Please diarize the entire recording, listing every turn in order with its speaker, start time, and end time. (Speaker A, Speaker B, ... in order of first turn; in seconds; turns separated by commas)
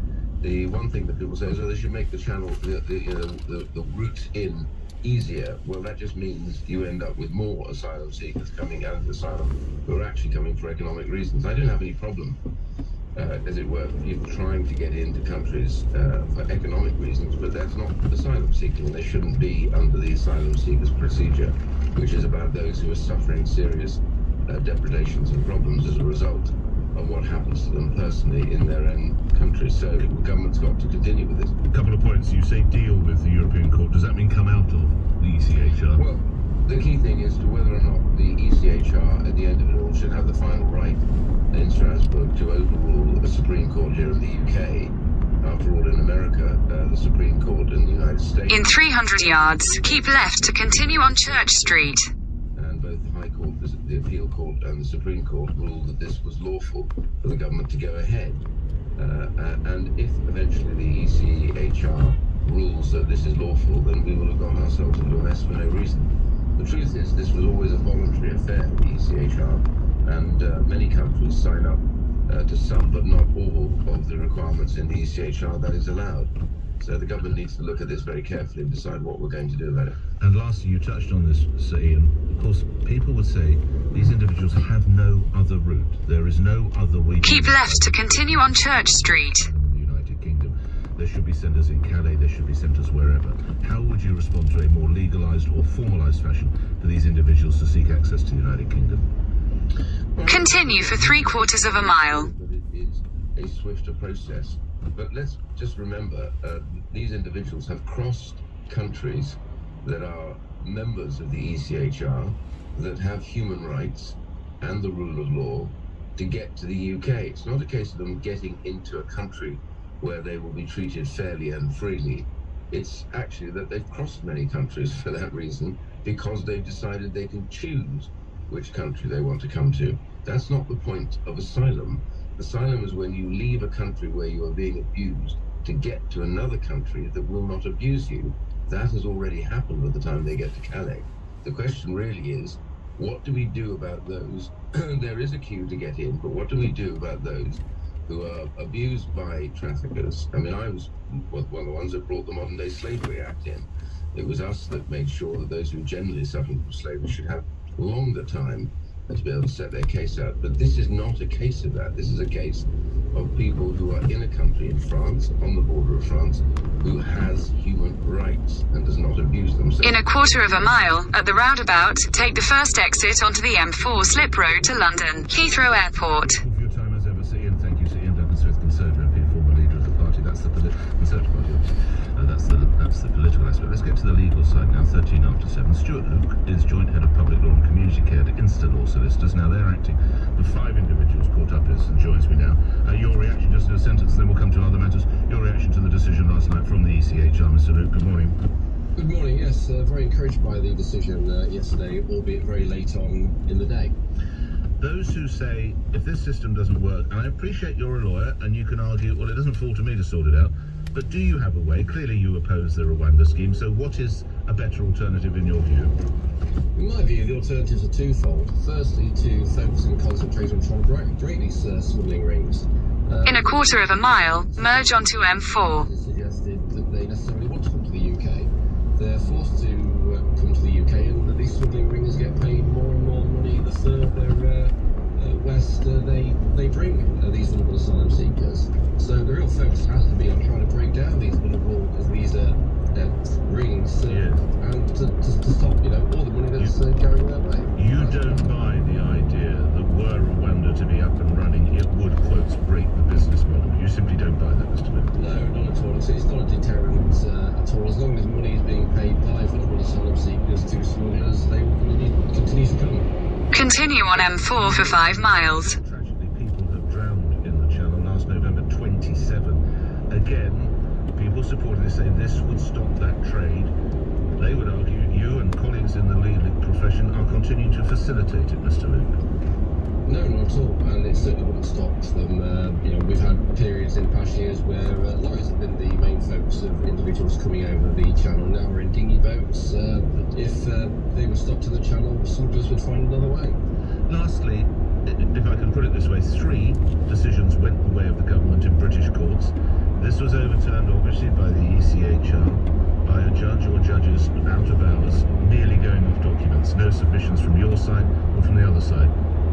Speaker A: 0.4-12.4, Speaker A: 13.2-31.6, Speaker B: 31.7-36.0, Speaker A: 36.0-51.7, Speaker C: 48.5-52.1, Speaker A: 52.6-58.4, Speaker A: 59.0-80.0, Speaker B: 80.2-99.1, Speaker C: 87.2-89.5, Speaker A: 100.2-170.0, Speaker C: 100.2-102.3, Speaker C: 169.8-176.4, Speaker B: 176.2-198.4, Speaker D: 199.0-203.9, Speaker B: 204.8-216.0, Speaker D: 216.8-225.1, Speaker C: 223.2-225.9, Speaker D: 225.6-248.5, Speaker B: 244.1-244.5, Speaker B: 247.8-255.1, Speaker D: 255.2-263.1, Speaker C: 263.5-265.8, Speaker B: 264.1-273.7, Speaker B: 274.4-279.2, Speaker D: 280.1-293.6, Speaker B: 294.1-309.1